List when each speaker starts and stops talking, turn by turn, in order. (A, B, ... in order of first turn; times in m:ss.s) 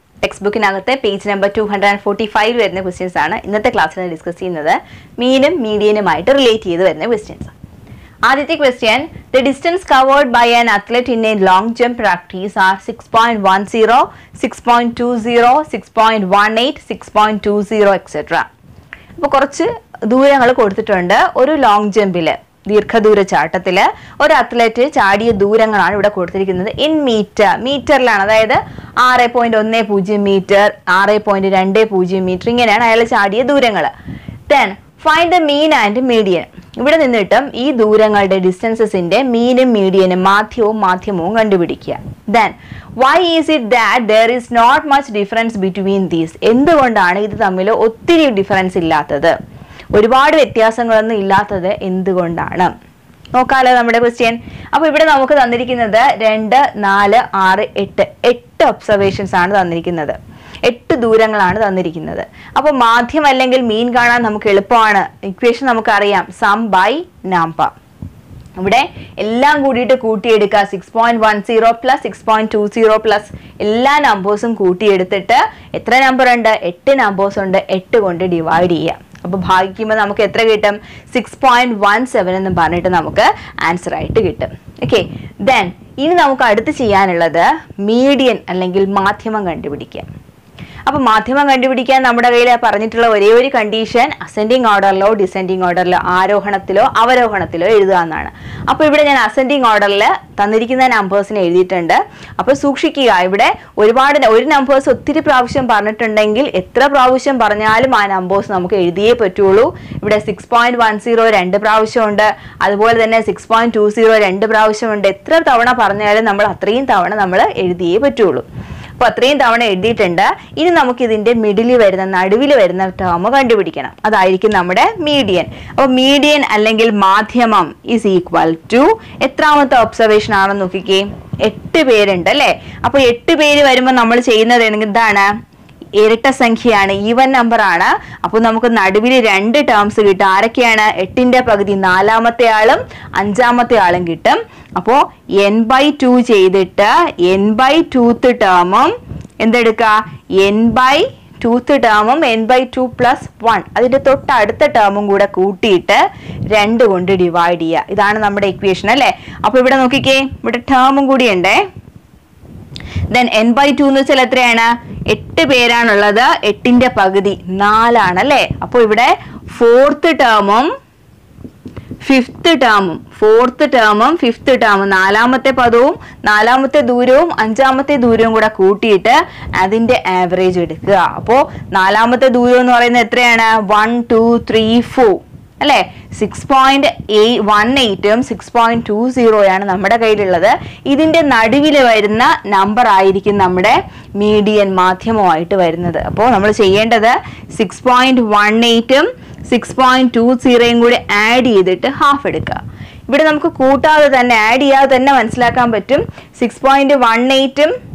0:00.2-0:07.5 A
0:08.3-0:18.4 A
0:19.2-0:33.9 A
0:34.5-0:49.3 A
0:49.9-0:52.7 A
0:53.3-1:07.7 A
1:08.6-1:30.0 A
1:30.9-1:58.4 A
1:59.0-2:15.2 A
2:16.0-2:41.6 A
2:43.1-2:50.7 A
2:52.0-3:27.7 A